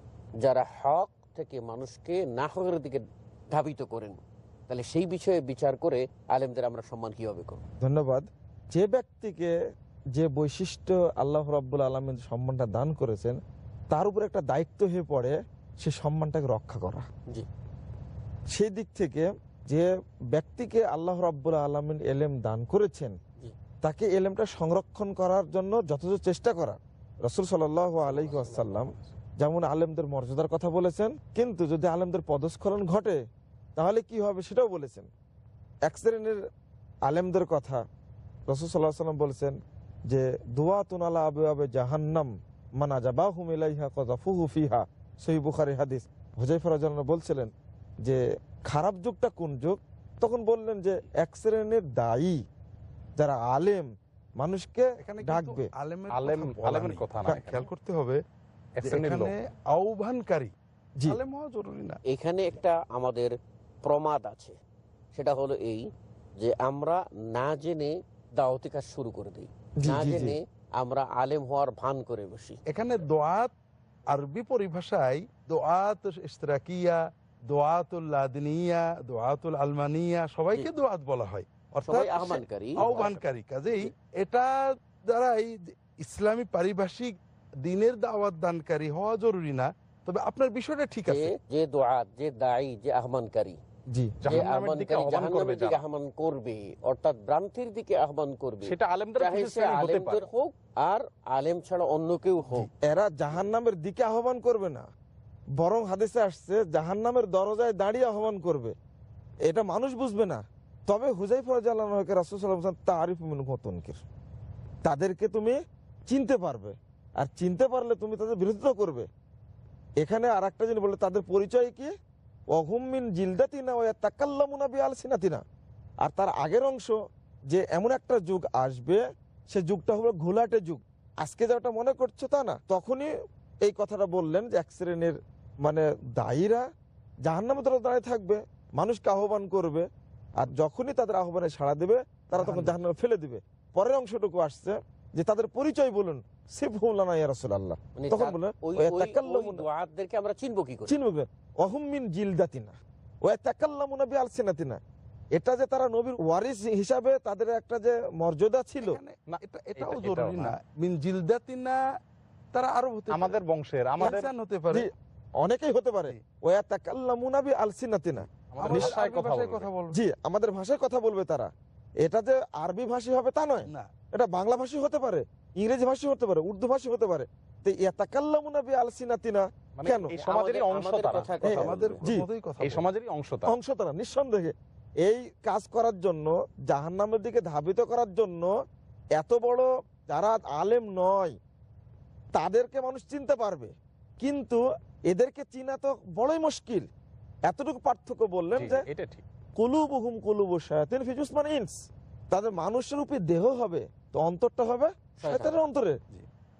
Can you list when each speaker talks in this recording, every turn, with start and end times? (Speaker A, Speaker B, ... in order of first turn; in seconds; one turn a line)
Speaker A: 0.4-7.7
Speaker B: 7.8-9.5
Speaker B: 10.1-13.4
Speaker B: 13.9-17.1
Speaker B: 18.5-23.1
Speaker B: 23.8-33.2
Speaker A: 28.0-28.8
Speaker B: 33.8-35.1
Speaker B: 35.9-36.4
Speaker B: 37.1-37.8
Speaker B: 38.5-39.5
Speaker B: 40.1-47.5
Speaker B: 48.0-52.4
Speaker B: 53.2-53.9
Speaker B: 54.4-55.7
Speaker C: 55.0-58.2
Speaker D: 56.1-57.6
Speaker B: 57.2-57.6
Speaker D: 58.8-59.3
Speaker C: 58.8-60.5
Speaker C: 61.1-62.0
Speaker A: 62.1-63.3
Speaker A: 63.8-64.6
Speaker A: 65.1-65.8
Speaker A: 66.4-72.6
Speaker B: 69.8-70.3
Speaker C: 72.7-73.5
Speaker C: 74.1-91.3
Speaker A: 81.8-83.2
Speaker A: 91.0-93.6
Speaker B: 93.9-94.4
Speaker D: 94.2-95.8
Speaker A: 94.3-102.7
Speaker D: 98.6-100.3
Speaker B: 102.8-104.9
Speaker B: 105.6-108.7
Speaker B: 109.5-114.0
Speaker B: 114.8-115.6
Speaker B: 116.1-119.1
Speaker B: 120.0-121.9
Speaker B: 122.5-125.4
Speaker B: 126.0-126.9
Speaker B: 127.5-133.1
Speaker B: 133.7-136.6
Speaker B: 137.2-139.9
Speaker B: 140.4-149.6
Speaker C: 142.3-142.8
Speaker A: 147.9-150.9
Speaker B: 150.9-154.8
Speaker B: 155.3-159.0
Speaker C: 158.8-161.8
Speaker D: 159.3-160.5
Speaker C: 162.5-163.4
Speaker D: 163.1-164.3
Speaker C: 164.0-164.9
Speaker B: 165.4-168.9
Speaker D: 168.5-169.7
Speaker C: 168.6-170.0
Speaker B: 169.9-171.5
Speaker B: 172.0-180.1
Speaker D: 179.8-182.1
Speaker A: 180.1-181.9
Speaker B: 181.4-182.2
Speaker C: 181.4-182.8
Speaker D: 182.6-183.5
Speaker B: 183.4-188.5
Speaker B: 189.2-191.3
Speaker B: 192.3-196.8
Speaker B: 197.5-198.8
Speaker D: 198.5-199.2
Speaker B: 199.6-201.7
Speaker B: 202.3-205.9
Speaker A: 205.2-205.6